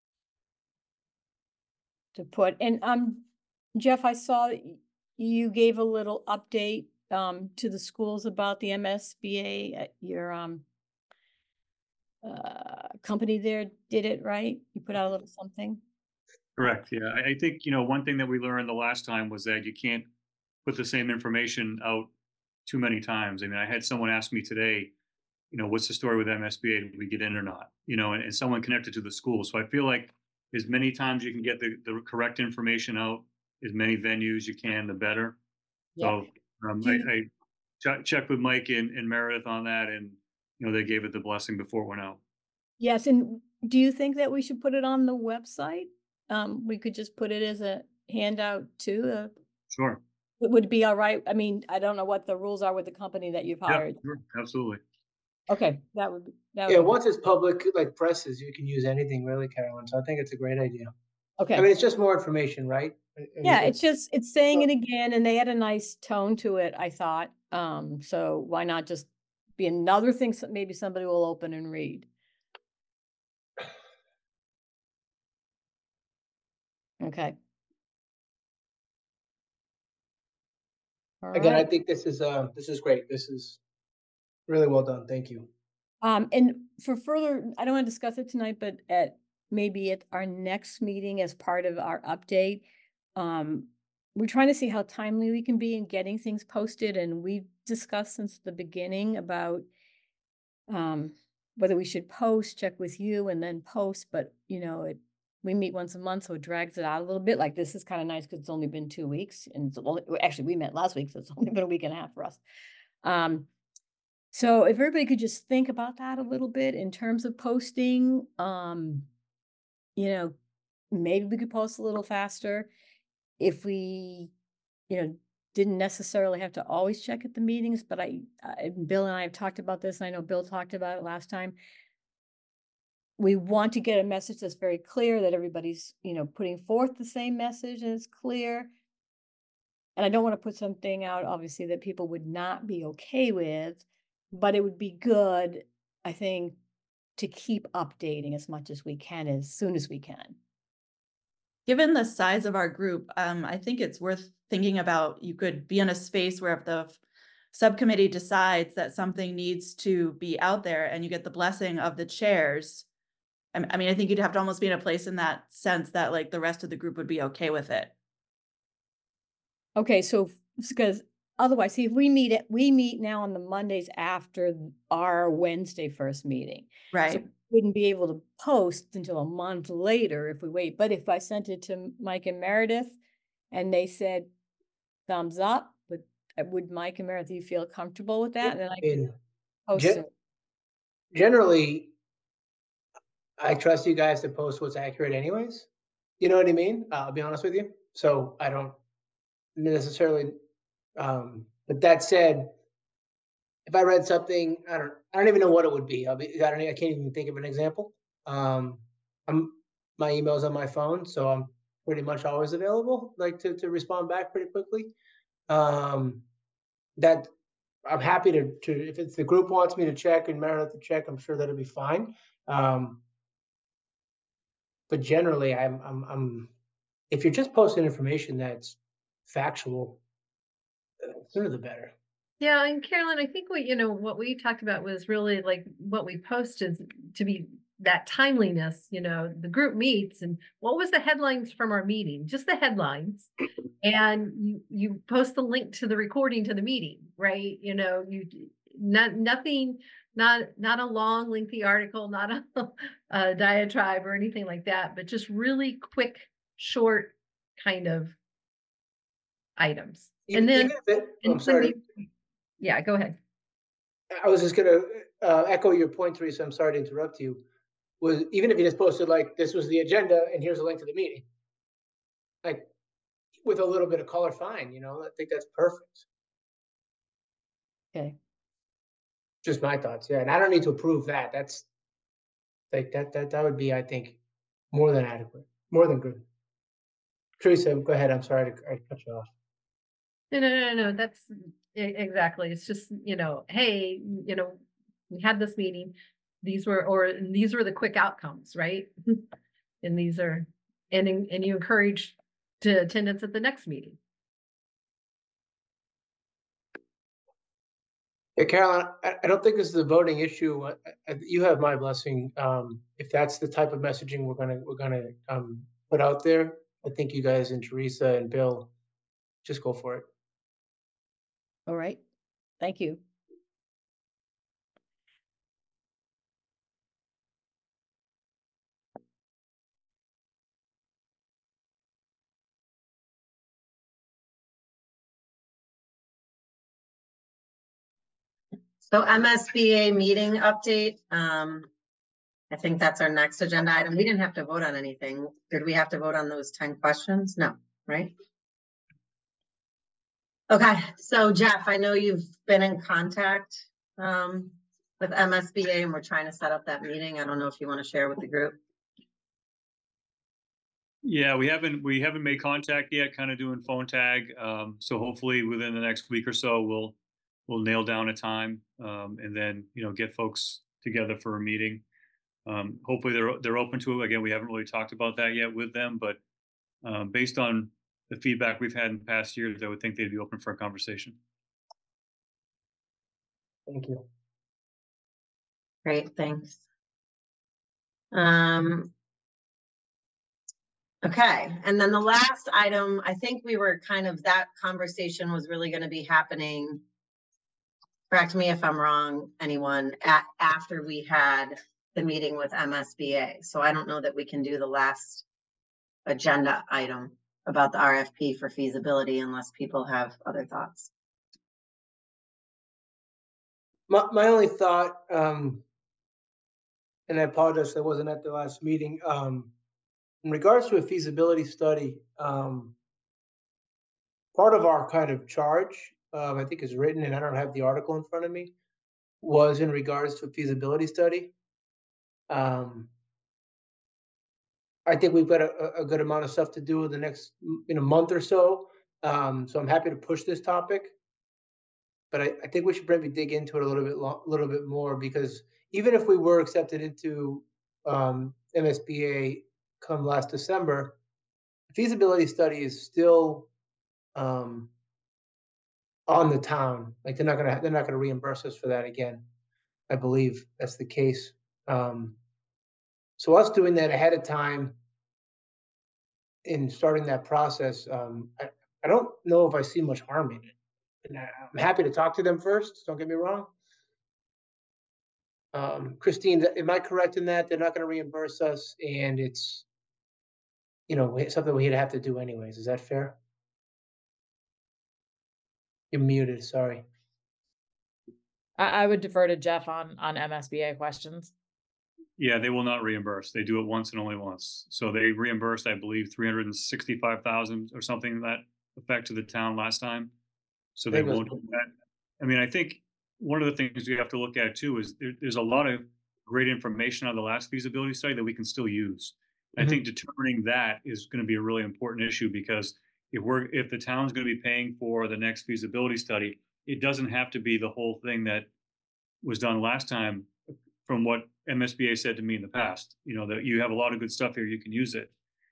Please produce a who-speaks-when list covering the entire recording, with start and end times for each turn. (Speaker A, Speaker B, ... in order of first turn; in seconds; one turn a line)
Speaker A: 2.1-3.2
Speaker A: 3.8-10.7
Speaker A: 12.2-15.8
Speaker B: 16.6-20.1
Speaker B: 20.6-22.1
Speaker B: 22.7-24.9
Speaker B: 25.5-35.4
Speaker A: 36.0-36.2
Speaker B: 36.0-37.3
Speaker B: 37.8-42.2
Speaker A: 42.8-49.3
Speaker B: 49.7-50.0
Speaker A: 50.4-54.0
Speaker B: 53.7-54.8
Speaker A: 55.5-56.9
Speaker C: 56.7-60.9
Speaker A: 61.4-61.7
Speaker C: 61.5-63.8
Speaker A: 63.4-72.1
Speaker A: 77.0-77.4
Speaker A: 81.2-81.7
Speaker C: 81.3-83.6
Speaker C: 84.5-85.5
Speaker A: 86.0-92.6
Speaker A: 93.2-99.7
Speaker A: 100.7-112.4
Speaker A: 113.0-113.5
Speaker A: 114.3-119.1
Speaker A: 120.0-120.3
Speaker A: 120.9-122.7
Speaker A: 123.4-124.3
Speaker A: 124.9-131.6
Speaker A: 133.2-138.7
Speaker A: 140.0-146.6
Speaker A: 147.2-150.4
Speaker D: 151.7-157.0
Speaker D: 157.5-162.9
Speaker D: 163.5-167.9
Speaker A: 169.8-183.0
Speaker D: 176.9-177.2
Speaker A: 183.5-184.3
Speaker A: 185.1-189.0
Speaker C: 188.4-189.2
Speaker A: 189.7-190.1
Speaker C: 189.8-190.0
Speaker C: 191.1-191.9
Speaker C: 193.4-195.7
Speaker C: 196.2-198.8
Speaker C: 199.6-200.4
Speaker C: 201.0-202.5
Speaker C: 203.7-214.9
Speaker C: 215.5-216.2
Speaker C: 217.0-217.3
Speaker C: 217.9-223.0
Speaker C: 224.9-226.5
Speaker C: 227.1-230.0
Speaker C: 231.1-231.9
Speaker E: 232.4-258.1
Speaker E: 259.6-261.8
Speaker C: 260.3-261.8
Speaker E: 262.6-263.2
Speaker C: 264.1-267.4
Speaker C: 268.0-271.3
Speaker C: 273.4-276.1
Speaker C: 279.4-281.7
Speaker C: 282.7-284.2
Speaker C: 284.7-286.2
Speaker C: 287.4-289.3
Speaker E: 290.3-299.3
Speaker E: 299.8-304.0
Speaker C: 308.4-318.7
Speaker C: 319.4-320.1
Speaker A: 321.7-322.0
Speaker A: 322.6-323.0
Speaker F: 338.9-341.7
Speaker F: 342.5-348.1
Speaker F: 350.5-358.6
Speaker B: 361.1-367.0
Speaker B: 367.5-371.8
Speaker B: 372.5-376.2
Speaker B: 376.8-381.2
Speaker C: 383.7-384.1
Speaker F: 385.9-386.6
Speaker F: 388.1-388.9
Speaker F: 391.0-396.8
Speaker F: 398.1-405.2
Speaker F: 406.1-410.9
Speaker C: 413.9-415.6
Speaker C: 417.1-419.5
Speaker C: 420.2-422.7
Speaker C: 424.3-428.5
Speaker C: 429.2-431.3
Speaker C: 432.3-432.9
Speaker C: 434.9-440.9
Speaker C: 442.1-451.0
Speaker C: 451.7-453.5
Speaker C: 454.1-454.7
Speaker C: 456.1-459.2
Speaker C: 459.9-462.2
Speaker C: 463.2-464.8
Speaker C: 466.4-473.5
Speaker C: 475.5-479.7
Speaker C: 480.9-483.2
Speaker C: 485.9-486.8
Speaker G: 488.6-491.3
Speaker B: 492.2-500.1
Speaker B: 500.8-501.7
Speaker C: 500.9-501.4
Speaker B: 502.2-518.5
Speaker B: 519.2-520.3
Speaker B: 520.9-525.1